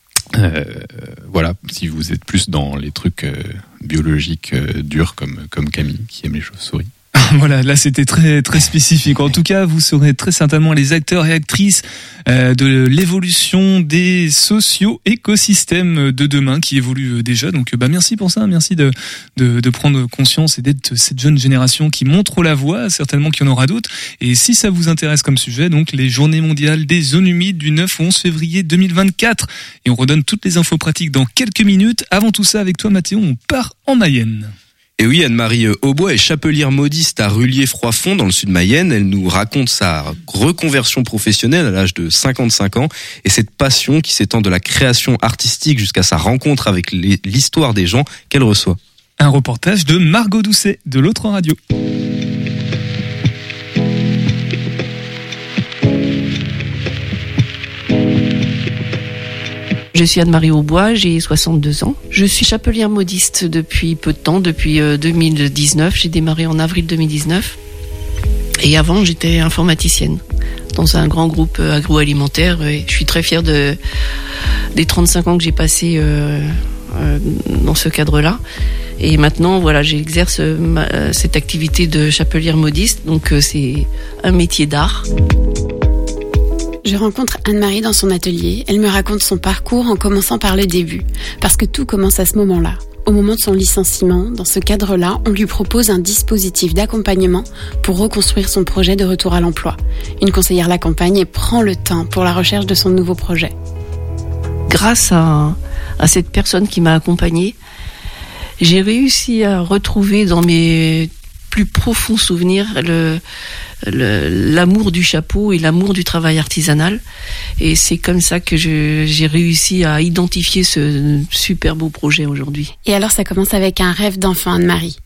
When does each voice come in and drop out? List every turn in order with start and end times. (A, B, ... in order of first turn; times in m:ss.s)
0:00.3-0:06.9 A
0:07.2-0:34.5 B
0:35.0-0:48.8 C
0:49.2-0:51.6 B
0:59.9-1:07.6 D
1:08.6-1:10.2 D
1:10.8-1:13.8 D
1:14.8-1:18.4 D
1:19.0-1:25.1 D
1:26.8-1:43.5 E
1:44.7-1:47.6 D
1:48.6-1:53.2 D
1:53.9-1:57.0 D
1:57.6-2:02.7 D
2:02.8-2:05.0 E